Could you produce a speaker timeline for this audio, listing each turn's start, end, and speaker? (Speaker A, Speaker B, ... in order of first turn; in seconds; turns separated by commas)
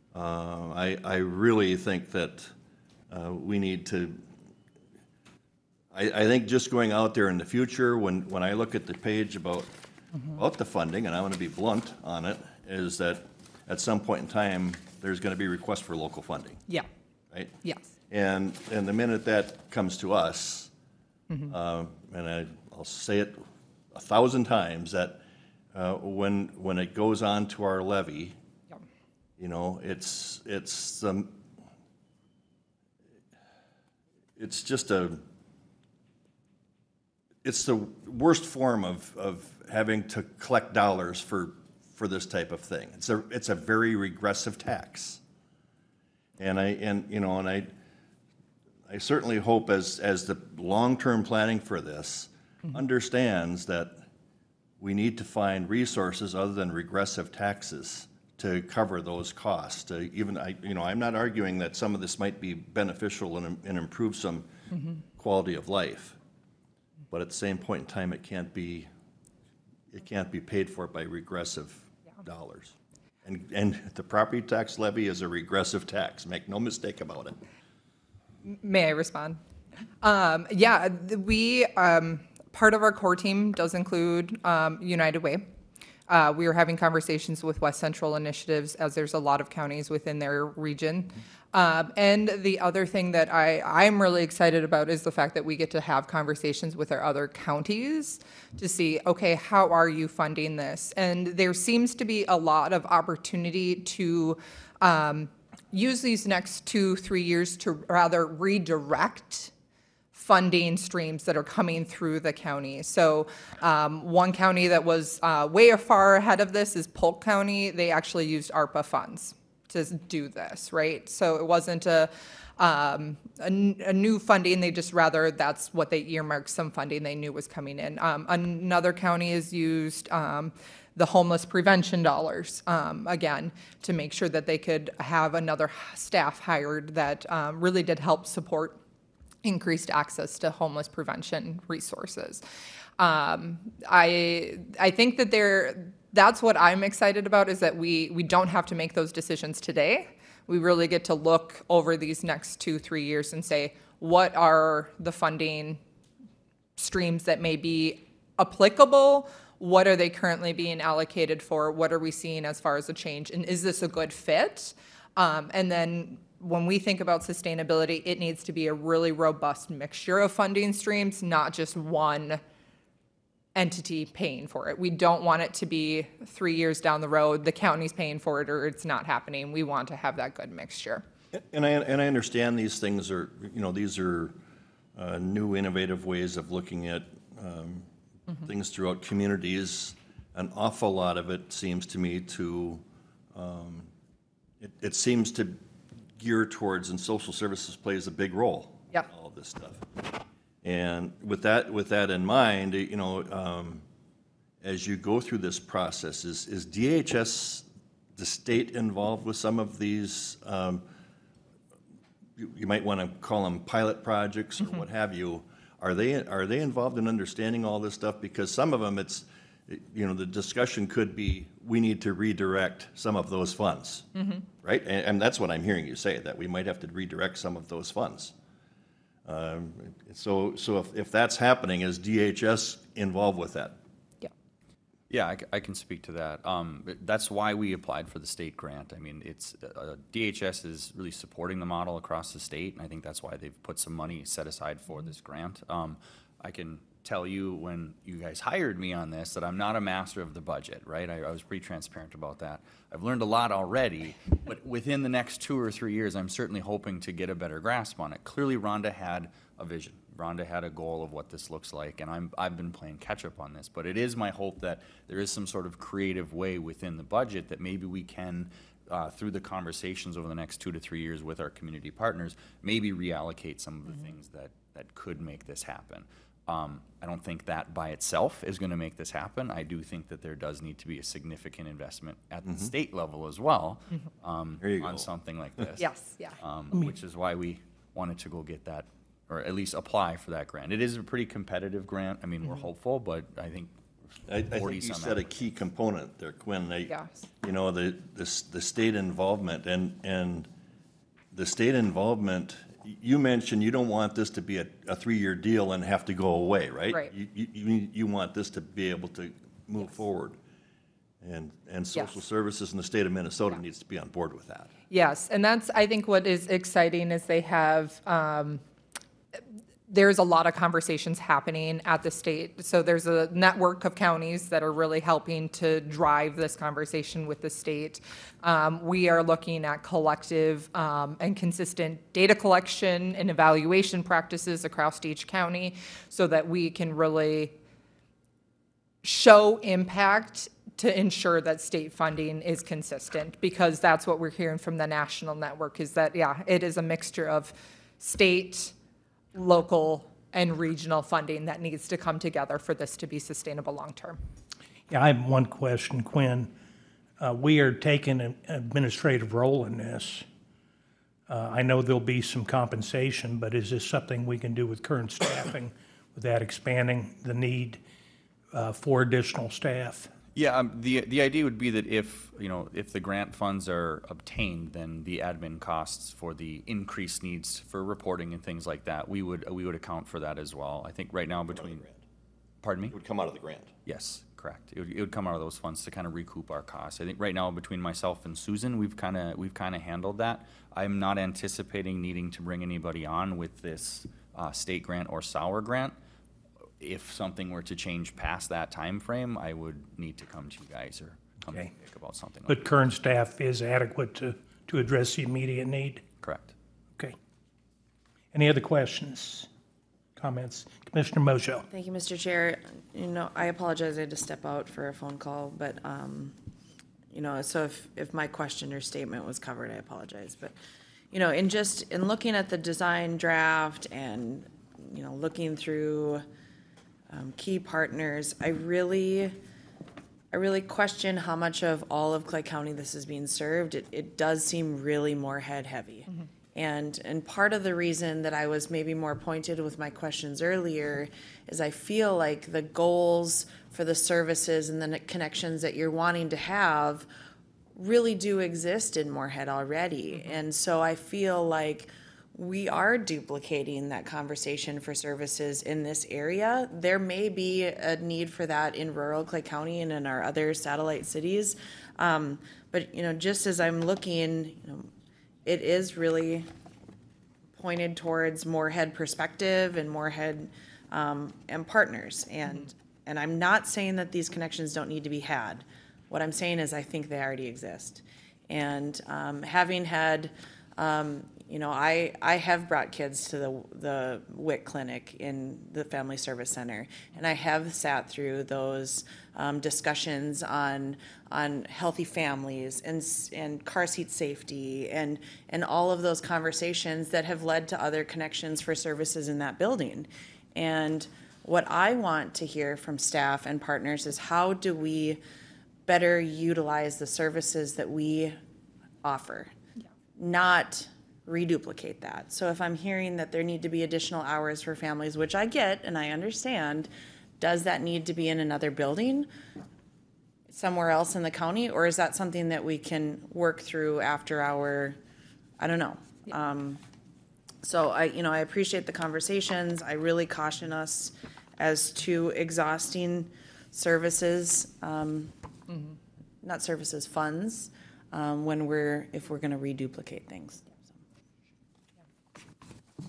Speaker A: 0.1-2.5, Speaker A: 3.1-4.2, Speaker A: 5.9-9.7, Speaker A: 10.3-16.6, Speaker B: 17.6-17.9, Speaker A: 18.1-20.7, Speaker A: 21.5-25.2, Speaker A: 25.7-28.4, Speaker A: 29.4-31.4, Speaker A: 34.4-35.2, Speaker A: 37.4-45.2, Speaker A: 46.4-47.7, Speaker A: 48.9-54.0, Speaker A: 54.8-64.5, Speaker A: 65.2-66.2, Speaker A: 67.1-68.9, Speaker A: 69.9-77.4, Speaker B: 78.5-79.4, Speaker B: 80.0-85.4, Speaker B: 86.1-109.5, Speaker B: 110.1-138.8, Speaker B: 139.4-142.4, Speaker B: 143.0-155.8, Speaker B: 156.8-172.4, Speaker B: 173.5-181.0, Speaker A: 181.3-184.4, Speaker A: 184.9-187.9, Speaker A: 188.4-192.8, Speaker A: 193.3-193.9, Speaker A: 194.6-195.6, Speaker A: 196.2-199.8, Speaker A: 200.6-203.8, Speaker A: 204.6-207.6, Speaker A: 208.2-210.8, Speaker A: 212.4-224.1, Speaker B: 224.2-224.4, Speaker A: 224.6-228.3, Speaker A: 229.2-233.8, Speaker C: 235.1-285.9, Speaker A: 282.4-282.7, Speaker A: 284.6-285.7, Speaker B: 285.8-286.4, Speaker C: 286.4-293.7, Speaker A: 294.3-300.5, Speaker C: 294.4-295.4, Speaker B: 296.9-297.2, Speaker A: 301.3-310.4, Speaker A: 311.2-314.7, Speaker B: 314.9-318.6, Speaker B: 319.9-337.5, Speaker B: 339.0-348.7, Speaker B: 349.3-354.2, Speaker D: 354.9-356.5, Speaker D: 357.2-360.2, Speaker D: 361.3-367.8, Speaker D: 368.5-370.1, Speaker C: 370.3-381.8, Speaker A: 381.5-382.0, Speaker C: 382.6-383.0, Speaker A: 382.9-383.7, Speaker C: 383.9-395.9, Speaker C: 396.8-402.6, Speaker D: 402.5-406.0, Speaker C: 406.2-406.5, Speaker D: 408.3-409.5, Speaker D: 410.1-411.7, Speaker E: 411.7-416.4, Speaker E: 417.1-420.5, Speaker E: 421.1-426.2, Speaker E: 427.1-429.4, Speaker E: 430.3-447.1, Speaker E: 447.7-464.9, Speaker E: 465.4-466.5, Speaker E: 467.6-505.2, Speaker E: 505.9-508.4, Speaker E: 509.0-509.5, Speaker E: 510.1-519.3, Speaker E: 520.5-525.0, Speaker E: 525.6-526.8, Speaker E: 527.6-535.3, Speaker E: 536.4-540.9